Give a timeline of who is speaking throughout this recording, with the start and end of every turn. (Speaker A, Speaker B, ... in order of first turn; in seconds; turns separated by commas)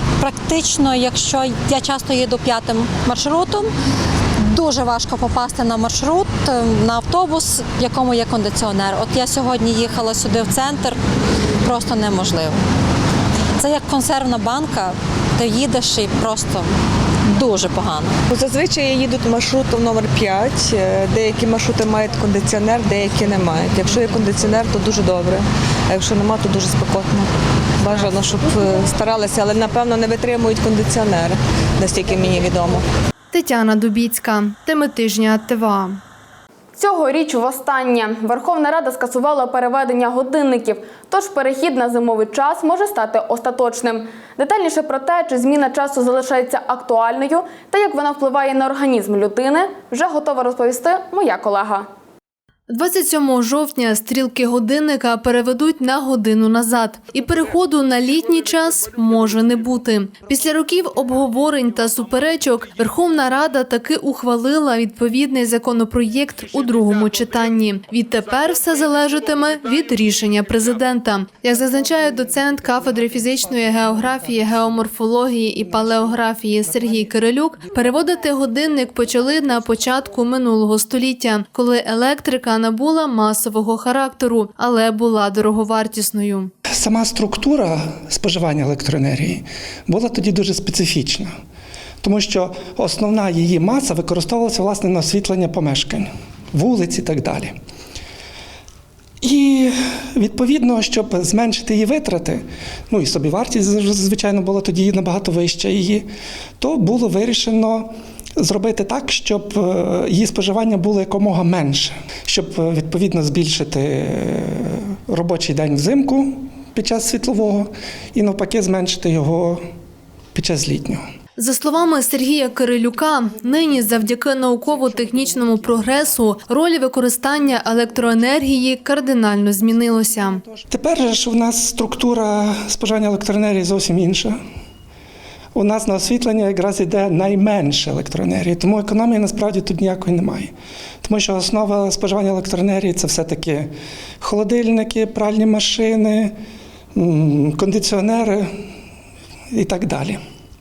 Speaker A: 0.2-3.7, Speaker A: 4.5-11.0, Speaker A: 11.6-12.6, Speaker A: 13.6-16.7, Speaker A: 17.3-18.1, Speaker B: 18.3-32.8, Speaker C: 33.3-36.0, Speaker D: 36.8-51.9, Speaker C: 52.7-86.5, Speaker E: 86.7-91.3, Speaker E: 92.0-97.5, Speaker E: 99.2-106.1, Speaker E: 106.6-119.6, Speaker E: 120.3-121.0, Speaker C: 121.4-130.4, Speaker E: 130.7-134.3, Speaker E: 135.5-140.5, Speaker E: 141.0-143.7, Speaker E: 144.2-146.3, Speaker E: 146.9-148.5, Speaker E: 149.5-150.2